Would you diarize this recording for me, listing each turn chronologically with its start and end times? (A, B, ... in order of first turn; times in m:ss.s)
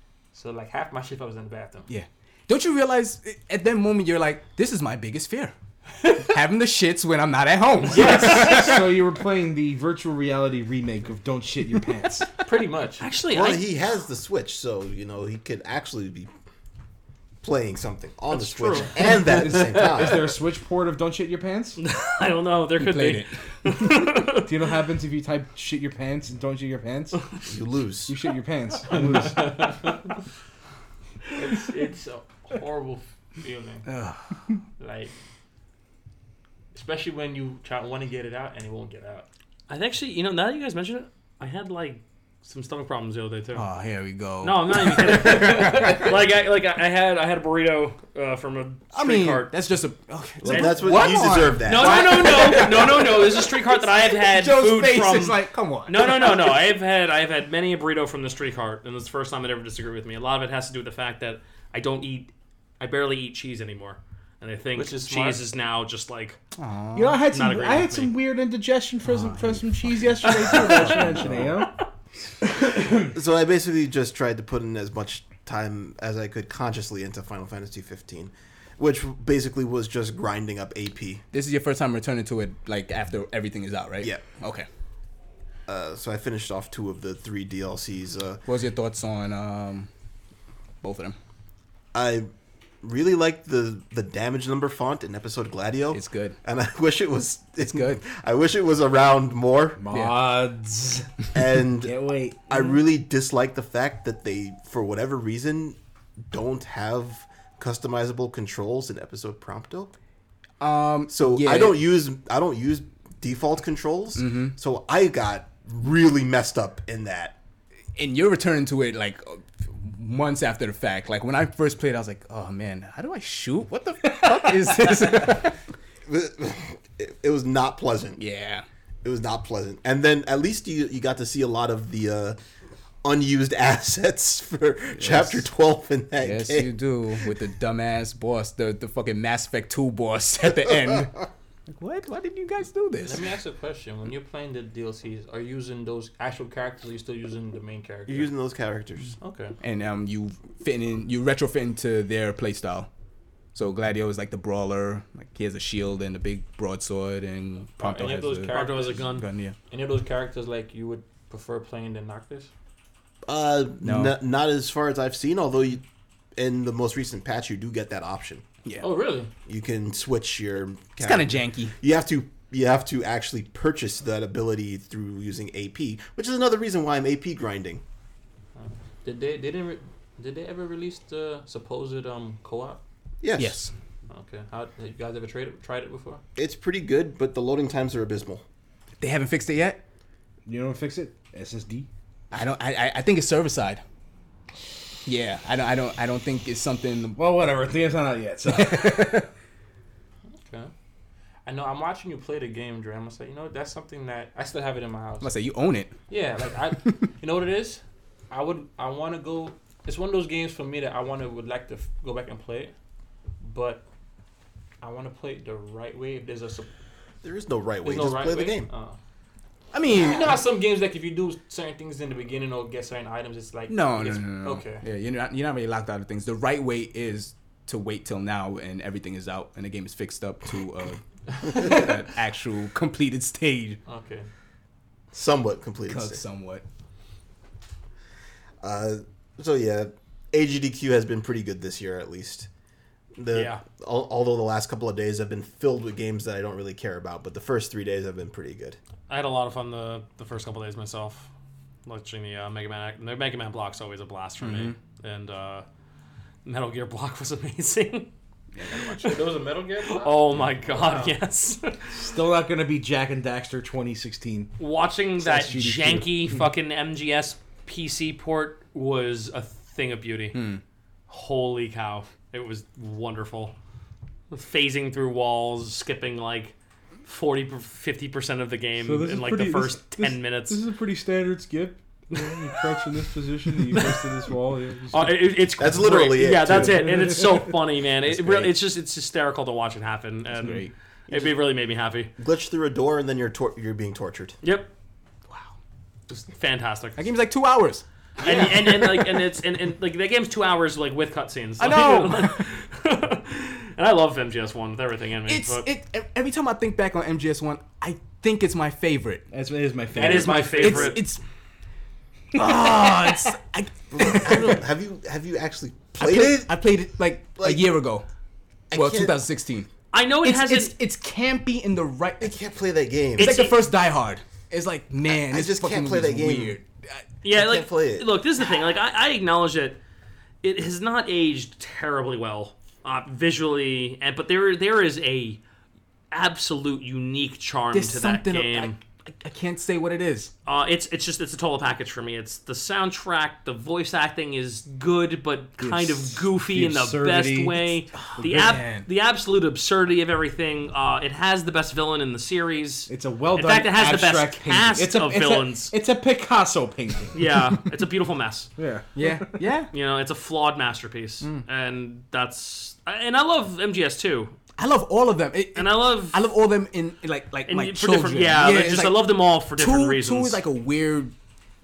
0:00.3-0:01.9 A
0:01.9-0:08.9 B
0:07.8-0:08.8 A
0:07.9-0:12.3 C
0:12.4-0:13.0 A
0:13.0-0:13.7 D
0:13.3-0:16.3 E
0:17.4-0:20.3 E
0:18.3-0:19.0 D
0:19.3-0:21.8 C
0:21.8-0:24.5 D
0:22.8-0:23.7 B
0:24.4-0:27.2 C
0:27.5-0:28.1 E
0:28.1-0:29.7 C
0:28.9-0:30.1 A
0:31.3-0:33.9 A
0:33.9-0:34.4 B
0:34.8-0:35.1 A
0:36.7-0:39.2 A
0:39.7-0:43.6 D
0:43.5-0:46.1 B
0:44.4-0:49.5 D
0:48.9-0:56.4 B
0:50.4-0:52.7 E
0:50.5-1:06.4 D
1:04.7-1:05.4 A
1:06.6-1:07.2 B
1:06.9-1:11.8 C
1:07.3-1:08.1 D
1:09.0-1:11.4 B
1:10.3-1:10.9 D
1:12.4-1:13.1 C
1:13.0-1:21.2 E
1:21.3-1:24.6 B
1:25.7-1:28.4 E
1:28.4-1:29.9 B
1:30.8-1:31.2 B
1:31.9-1:32.3 E
1:32.8-1:39.8 E
1:35.9-1:36.4 B
1:37.6-1:38.0 B
1:39.8-1:41.1 C
1:39.9-1:40.2 B
1:41.3-1:41.9 E
1:41.8-1:42.7 C
1:42.5-1:45.8 E
1:46.3-1:49.9 E
1:50.6-1:51.8 B
1:51.1-1:57.4 E
1:54.2-1:54.5 B
1:58.0-2:05.6 B
2:06.0-2:08.2 E
2:08.2-2:08.6 B
2:09.0-2:12.4 E
2:13.0-2:16.7 E
2:15.0-2:15.4 B
2:16.2-2:23.2 B
2:23.0-2:28.3 A
2:28.0-2:29.2 E
2:29.2-2:29.6 A
2:29.6-2:32.9 B
2:33.5-2:39.6 B
2:37.8-2:42.5 A
2:38.4-2:39.2 D
2:43.2-2:45.8 E
2:43.8-2:44.2 B
2:46.4-2:48.4 E
2:48.8-2:49.3 A
2:49.4-2:57.8 E
2:51.0-2:51.7 B
2:58.6-3:02.8 A
3:03.2-3:03.6 E
3:03.4-3:03.7 B
3:04.1-3:06.2 A
3:06.4-3:08.4 E
3:09.0-3:09.8 B
3:10.4-3:11.9 C
3:12.3-3:13.8 B
3:15.0-3:17.3 B
3:17.2-3:19.2 C
3:18.5-3:19.3 B
3:20.4-3:20.7 A
3:21.4-3:25.3 A
3:25.2-3:26.0 B
3:26.1-3:32.7 A
3:26.7-3:27.0 B
3:33.4-3:33.8 A
3:34.8-3:36.7 A
3:37.2-3:38.7 E
3:37.8-3:39.0 A
3:39.7-3:40.4 B
3:39.9-3:44.8 A
3:43.7-3:53.8 B
3:51.4-3:51.9 A
3:53.8-3:54.3 A
3:55.1-3:56.2 E
3:55.9-3:56.6 B
3:58.6-4:02.5 E
4:03.2-4:08.8 E
4:03.3-4:03.6 D
4:09.1-4:11.3 D
4:11.8-4:15.6 D
4:14.4-4:14.8 B
4:16.4-4:18.1 D
4:18.5-4:19.3 B
4:18.9-4:21.2 A
4:19.8-4:21.9 D
4:21.9-4:24.5 C
4:24.6-4:30.4 D
4:25.2-4:26.4 C
4:30.3-4:30.6 B
4:31.1-4:33.5 D
4:34.3-4:40.6 D
4:38.8-4:45.2 C
4:44.9-4:52.1 D
4:45.6-4:47.2 E
4:46.5-4:47.5 C
4:50.3-4:50.7 B
4:51.1-4:51.4 E
4:52.2-4:54.4 E
4:54.4-4:54.7 D
4:56.1-4:57.0 D
4:57.0-4:59.2 B
4:58.2-5:05.6 D
5:01.6-5:02.4 B
5:05.3-5:09.2 B
5:09.3-5:10.9 C
5:09.9-5:11.0 A
5:10.0-5:10.9 D
5:10.6-5:11.2 B
5:12.3-5:14.6 B
5:12.6-5:13.1 C
5:13.9-5:16.5 E
5:16.0-5:18.0 B
5:17.4-5:17.7 E
5:18.7-5:19.1 E
5:18.7-5:19.7 B
5:19.9-5:20.7 D
5:20.2-5:22.4 B
5:22.2-5:23.4 E
5:23.2-5:23.6 D
5:23.2-5:27.0 B
5:25.1-5:26.6 E
5:27.2-5:29.8 D
5:27.3-5:28.1 E
5:30.4-5:35.4 D
5:36.1-5:38.8 D
5:37.7-5:40.3 B
5:40.4-5:55.7 D
5:45.6-5:48.5 C
5:48.0-5:48.8 B
5:52.9-5:57.2 C
5:57.1-5:58.5 D
5:58.6-5:59.4 C
5:59.0-5:59.7 B
5:59.7-6:04.4 D
6:04.6-6:11.1 B
6:05.5-6:06.2 D
6:07.5-6:10.4 D